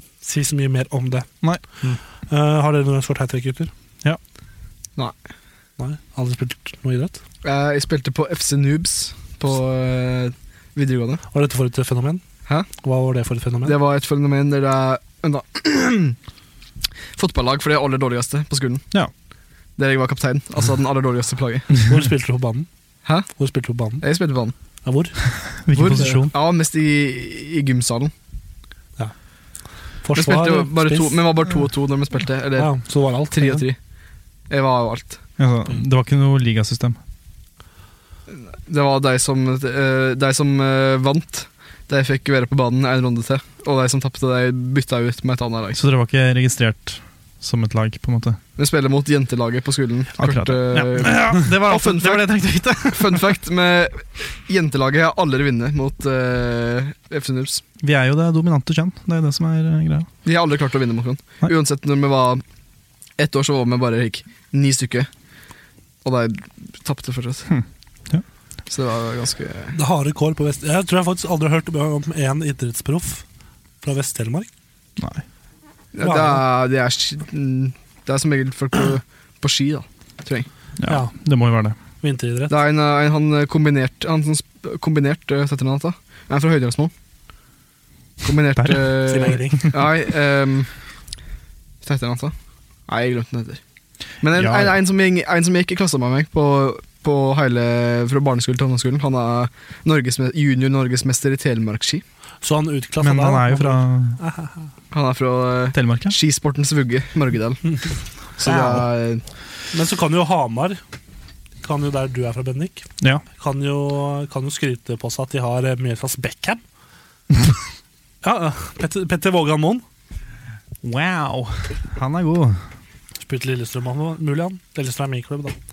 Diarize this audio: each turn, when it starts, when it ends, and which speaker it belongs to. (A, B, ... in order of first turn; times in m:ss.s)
0:00.2-0:01.3 A
0:02.3-0:03.7 A
0:05.8-0:07.2 A
0:07.4-0:11.2 B
0:11.3-0:12.2 A
0:12.8-0:13.8 A
0:13.6-0:16.2 B
0:17.2-0:18.8 B
0:19.8-0:21.8 B
0:21.8-0:22.7 A
0:23.0-0:23.3 B
0:23.4-0:24.0 A
0:24.0-0:24.5 B
0:24.8-0:25.2 A
0:25.4-0:26.3 C
0:25.7-0:28.1 B
0:30.0-0:31.2 A
0:30.2-0:33.8 B
0:32.6-0:33.6 A
0:34.5-0:35.2 B
0:35.4-0:37.0 C
0:38.3-0:45.8 B
0:45.7-0:48.4 C
0:48.6-0:57.6 B
0:50.2-0:53.4 C
0:57.8-1:00.1 C
1:00.2-1:02.4 B
1:03.2-1:05.1 B
1:06.0-1:07.5 B
1:07.5-1:08.2 C
1:08.7-1:09.8 B
1:09.8-1:13.2 A
1:13.8-1:14.5 A
1:15.0-1:15.2 C
1:16.0-1:20.5 B
1:16.0-1:16.4 A
1:20.8-1:21.8 C
1:20.9-1:21.1 A
1:22.0-1:22.6 A
1:22.5-1:26.9 B
1:28.2-1:30.7 B
1:28.6-1:29.7 C
1:29.0-1:29.8 A
1:31.8-1:32.3 B
1:32.9-1:33.6 B
1:34.2-1:42.0 B
1:34.3-1:34.8 C
1:42.4-1:44.7 A
1:43.0-1:44.2 C
1:44.9-1:47.9 B
1:45.7-1:46.2 C
1:48.4-1:49.2 B
1:48.4-1:48.9 C
1:49.7-1:50.8 A
1:51.6-1:56.6 A
1:58.2-1:59.8 A
2:00.8-2:02.6 C
2:03.2-2:05.6 A